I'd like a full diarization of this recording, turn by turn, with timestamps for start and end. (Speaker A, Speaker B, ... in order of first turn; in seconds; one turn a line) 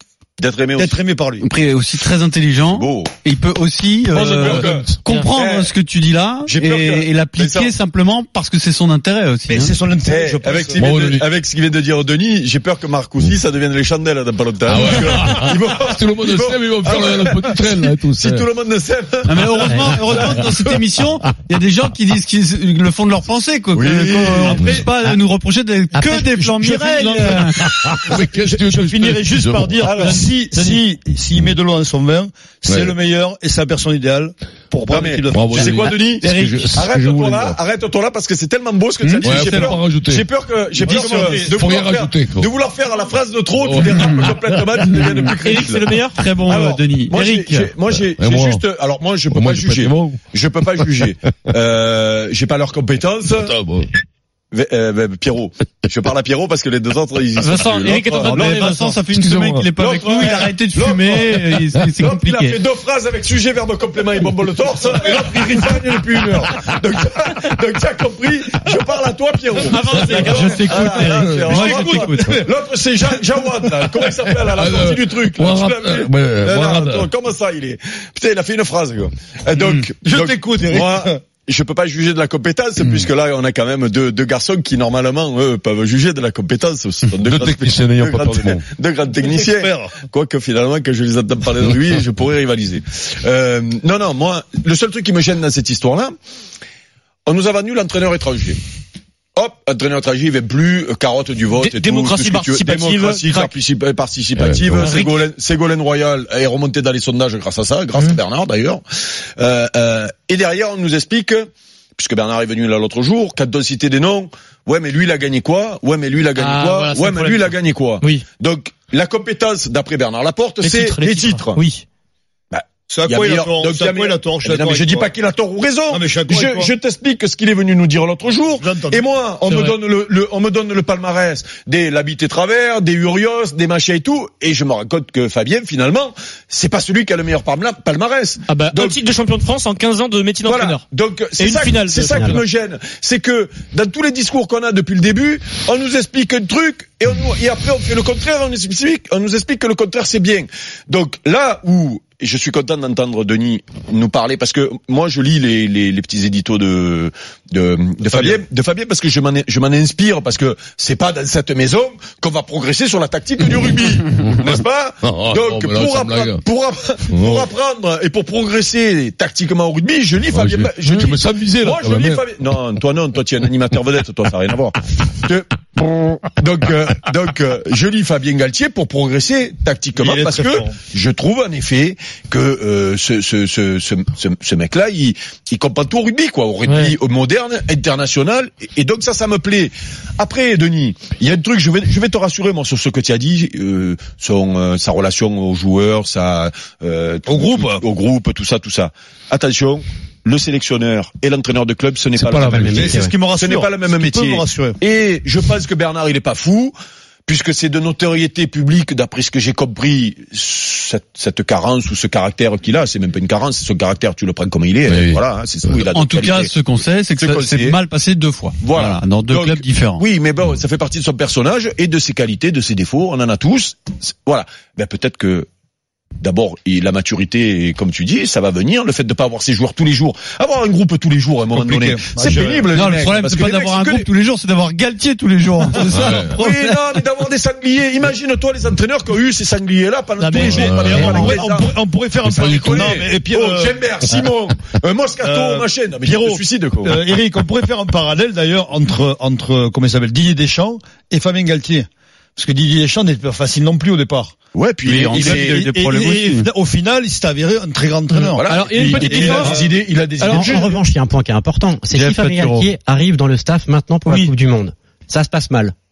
Speaker A: 0.4-1.0
Speaker B: 0.8-1.4
Speaker C: 1.4-9.7
Speaker A: 2.7-3.1
Speaker A: 4.1-5.7
Speaker D: 4.4-4.9
Speaker E: 5.1-5.3
Speaker A: 6.5-7.7
Speaker B: 9.5-10.9
Speaker A: 10.1-20.7
Speaker D: 10.8-11.3
Speaker D: 14.7-18.5
Speaker C: 19.2-27.6
Speaker A: 23.7-24.7
Speaker B: 24.5-24.8
Speaker B: 26.0-35.8
Speaker D: 27.6-29.9
Speaker A: 29.8-30.2
Speaker D: 32.7-32.9
Speaker A: 34.9-45.9
Speaker D: 35.3-37.6
Speaker C: 36.2-36.7
Speaker C: 39.0-39.7
Speaker D: 39.2-40.2
Speaker B: 40.8-41.6
Speaker D: 41.4-42.5
Speaker D: 43.6-45.0
Speaker E: 45.4-46.2
Speaker C: 46.1-47.7
Speaker A: 46.5-53.5
Speaker D: 48.0-48.6
Speaker D: 49.3-50.2
Speaker D: 53.3-53.9
Speaker A: 54.5-58.7
Speaker E: 57.4-59.0
Speaker C: 58.2-62.6
Speaker D: 59.1-59.7
Speaker A: 59.8-96.1
Speaker D: 65.6-66.8
Speaker E: 69.7-71.1
Speaker C: 70.0-72.4
Speaker D: 71.2-71.7
Speaker B: 72.0-72.4
Speaker D: 74.3-77.1
Speaker B: 80.0-81.2
Speaker D: 87.2-88.7
Speaker B: 89.2-90.0
Speaker A: 97.2-98.6
Speaker A: 99.3-121.6
Speaker E: 101.6-103.5
Speaker D: 104.4-104.9
Speaker E: 104.8-105.1
Speaker E: 116.3-118.2
Speaker E: 120.6-121.8
Speaker A: 122.5-139.0
Speaker B: 122.9-125.1
Speaker B: 125.9-126.7
Speaker B: 128.6-129.0
Speaker E: 129.5-129.8
Speaker E: 138.5-140.8
Speaker A: 140.4-206.7
Speaker E: 141.4-142.4
Speaker D: 164.2-166.4
Speaker D: 167.1-167.5
Speaker D: 170.3-172.2
Speaker B: 179.9-180.7
Speaker E: 186.7-186.9
Speaker B: 197.2-197.8
Speaker D: 202.2-202.9
Speaker F: 202.4-203.1
Speaker B: 202.7-204.8
Speaker A: 207.2-216.5
Speaker D: 214.9-215.8
Speaker C: 215.9-220.0
Speaker A: 217.2-217.8
Speaker A: 218.6-225.5
Speaker A: 226.2-234.1
Speaker B: 231.5-232.7
Speaker C: 232.7-236.7
Speaker D: 235.9-236.4
Speaker A: 236.0-241.7
Speaker E: 240.2-240.7
Speaker D: 240.3-241.3
Speaker B: 240.8-243.8
Speaker A: 242.2-247.0
Speaker D: 242.7-243.0
Speaker B: 245.2-254.3
Speaker A: 254.5-255.7
Speaker C: 254.8-256.5
Speaker B: 255.1-259.7
Speaker E: 258.1-259.6
Speaker A: 258.4-260.7
Speaker E: 260.2-260.7
Speaker F: 260.3-265.7
Speaker C: 261.9-262.7
Speaker E: 264.1-264.3